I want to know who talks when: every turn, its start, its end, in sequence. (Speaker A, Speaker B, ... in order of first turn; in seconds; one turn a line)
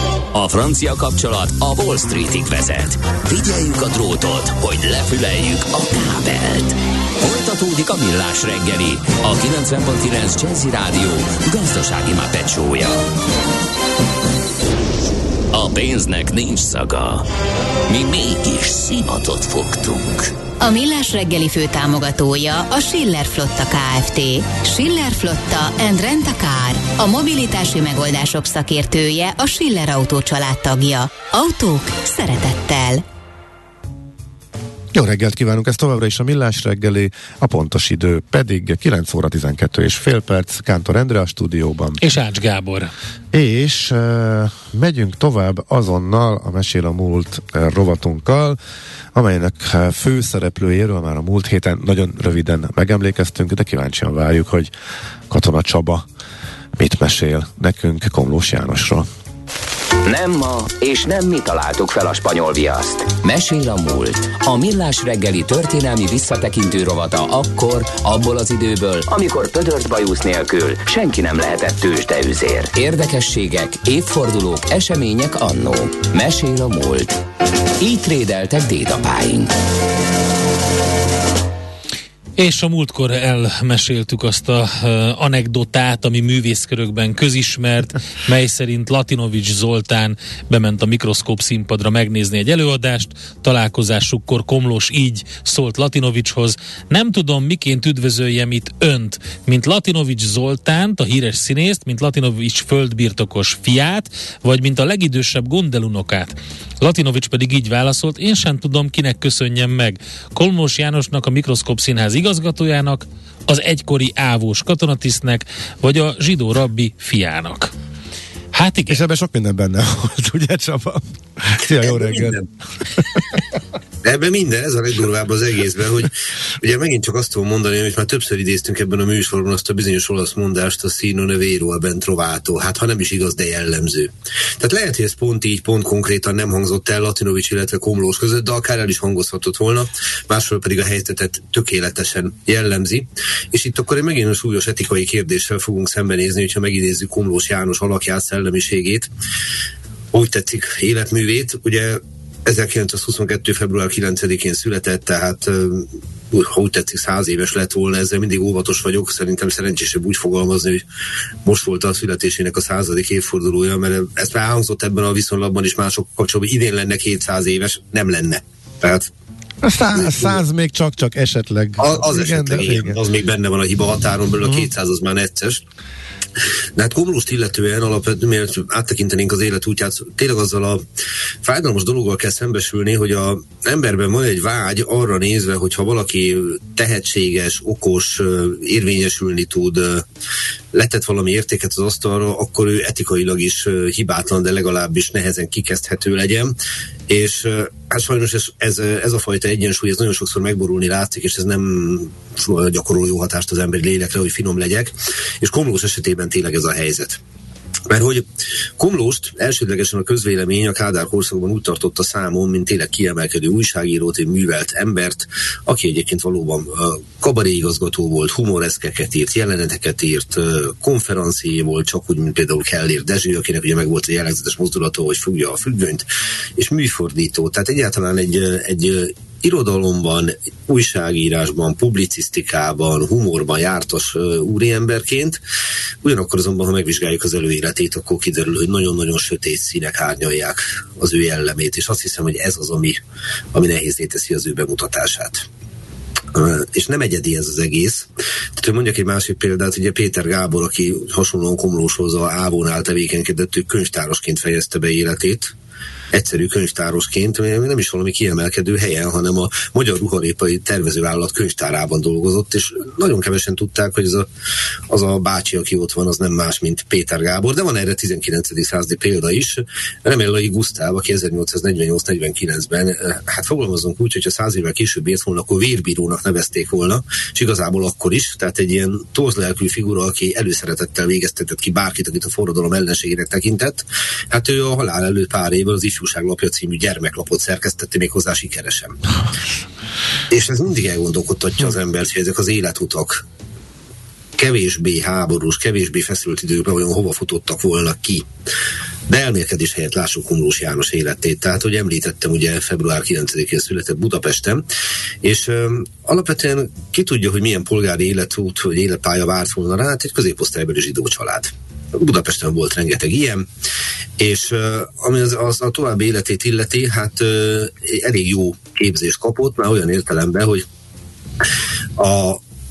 Speaker A: 0.3-13.1
Speaker A: 15.5-17.3
Speaker A: 17.9-20.3
Speaker B: 20.6-33.0
Speaker C: 34.9-42.0
Speaker D: 42.0-42.9
Speaker C: 43.3-48.6
Speaker C: 49.1-54.7
Speaker C: 55.3-56.1
Speaker C: 56.8-59.1
Speaker A: 60.0-77.2
Speaker A: 77.8-79.5
Speaker D: 82.4-117.7
Speaker D: 118.5-119.0
Speaker C: 118.9-122.5
Speaker E: 121.8-122.4
Speaker C: 123.0-123.4
Speaker E: 124.0-149.1
Speaker E: 150.1-160.8
Speaker E: 161.4-169.1
Speaker C: 169.6-173.0
Speaker E: 170.0-170.4
Speaker E: 171.8-175.6
Speaker C: 174.4-174.7
Speaker E: 176.8-180.8
Speaker E: 181.4-190.1
Speaker E: 190.7-196.5
Speaker E: 197.1-207.2
Speaker E: 207.9-208.2
Speaker E: 208.8-226.1
Speaker E: 226.6-235.4
Speaker E: 236.0-243.0
Speaker E: 243.5-245.5
Speaker E: 246.3-255.5
Speaker E: 256.1-264.3
Speaker E: 264.9-289.0
Speaker E: 290.3-293.2
Speaker E: 294.4-298.3
Speaker E: 299.1-304.6
Speaker E: 305.2-313.5
Speaker E: 314.2-320.6
Speaker E: 322.0-322.4